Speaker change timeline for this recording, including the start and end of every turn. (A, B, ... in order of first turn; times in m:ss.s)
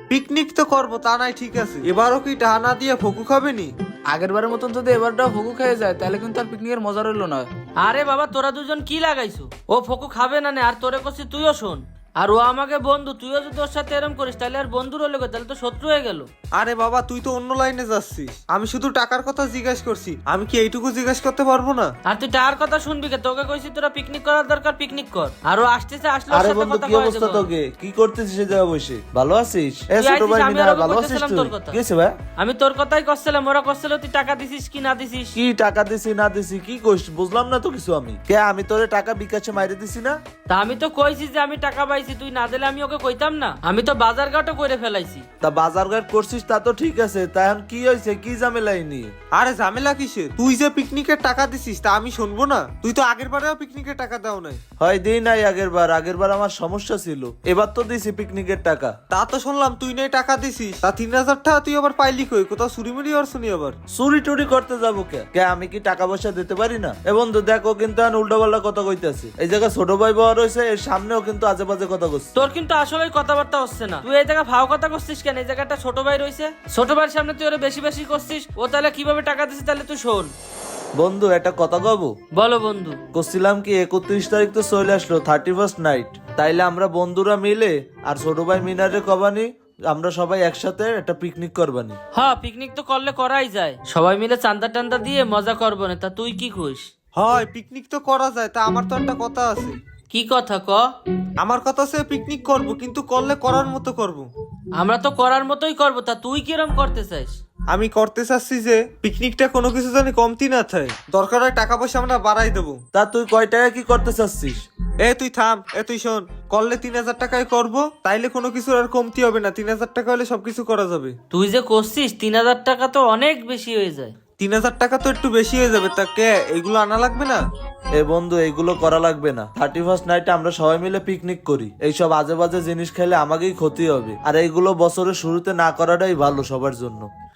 0:00.1-0:03.7 A
0:04.1-0:07.5 B
0:07.8-0:16.3 C
0:16.6-0:21.9 A
0:22.0-0:27.4 C
0:26.3-0:32.1 D
0:29.9-0:31.8 C
0:32.4-0:35.4 C
0:35.3-0:40.1 D
0:40.5-0:45.2 C
0:45.4-0:49.1 D
0:49.3-0:54.6 A
0:54.8-0:58.9 D
0:59.1-1:03.7 A
1:03.9-1:12.3 D
1:12.4-1:20.3 C
1:21.0-1:22.1 D
1:22.3-1:23.0 C
1:23.1-1:32.0 D
1:32.1-1:36.9 C
1:37.2-1:39.8 A
1:40.1-1:40.8 C
1:41.4-1:44.3 A
1:44.8-1:47.3 C
1:47.7-1:52.8 A
1:52.9-1:54.6 D
1:55.0-2:01.1 A
2:01.3-2:04.1 C
2:04.4-2:07.4 A
2:08.0-2:17.1 D